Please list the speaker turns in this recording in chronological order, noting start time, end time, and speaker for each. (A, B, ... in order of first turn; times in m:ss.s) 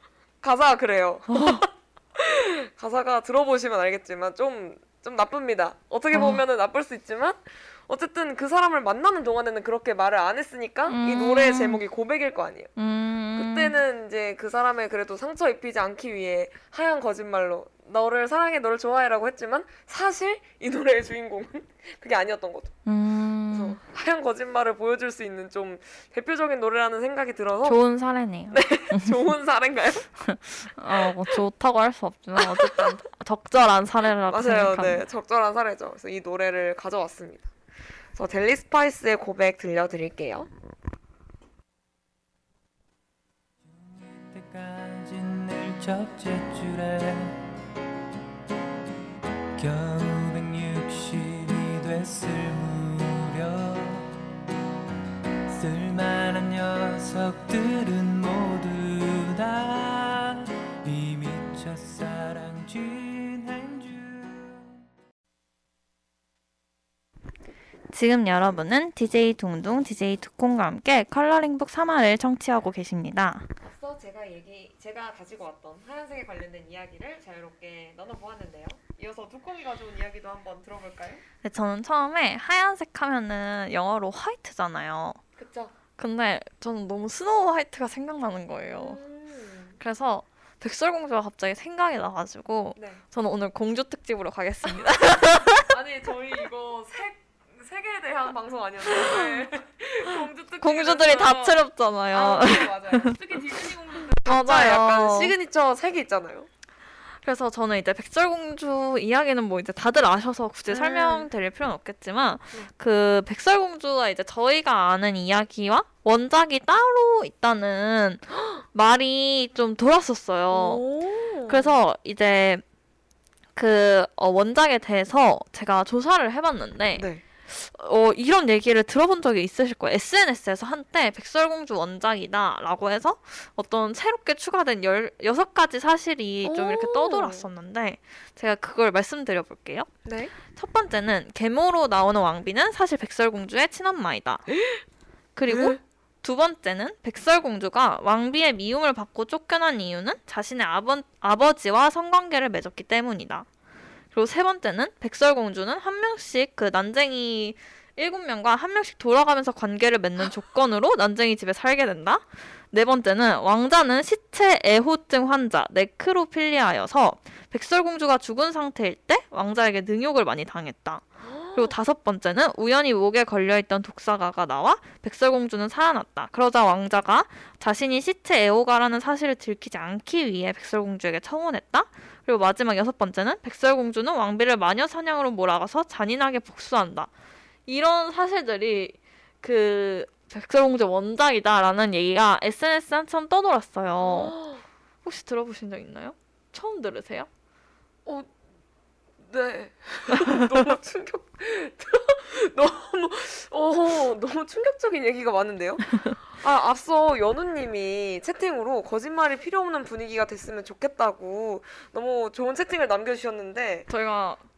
0:00.4-0:12.7 A
0:01.3-0:01.6 B
0:06.1-0:06.4 B
0:10.9-0:11.8 B
0:12.8-0:13.7 B
0:13.4-0:22.8 A
0:22.8-0:23.8 B
0:23.5-0:27.8 A
0:27.6-0:29.2 B
0:28.5-0:30.1 A
0:30.2-0:35.0 B
0:32.4-0:33.0 A
0:34.3-0:37.5 A
0:38.1-0:40.5 A
0:43.6-0:47.4 C
0:49.6-0:54.1 C
0:55.5-1:04.7 C
1:07.9-1:13.5 B
1:13.6-1:21.2 A
1:21.4-1:25.2 B
1:25.4-1:25.7 A
1:26.0-1:29.0 B
1:28.8-1:29.8 A
1:29.8-1:35.7 B
1:32.8-1:33.0 A
1:35.7-1:41.6 A
1:40.6-1:43.2 B
1:42.1-1:46.5 A
1:44.2-1:45.3 B
1:47.2-2:00.8 B
1:50.7-1:51.3 A
2:00.5-2:01.7 A
2:01.5-2:02.6 B
2:03.6-2:19.9 B
2:07.0-2:07.2 A
2:16.4-2:17.5 A
2:20.0-2:20.3 A
2:20.5-2:24.4 B
2:24.5-2:24.8 A
2:25.4-2:33.5 B
2:25.5-2:25.8 A
2:34.1-3:07.1 B
2:51.2-2:51.7 A
3:07.7-3:14.4 B
3:14.0-3:14.6 A
3:15.0-3:17.3 B
3:18.0-3:18.3 A
3:19.2-3:33.9 A
3:33.9-3:34.4 B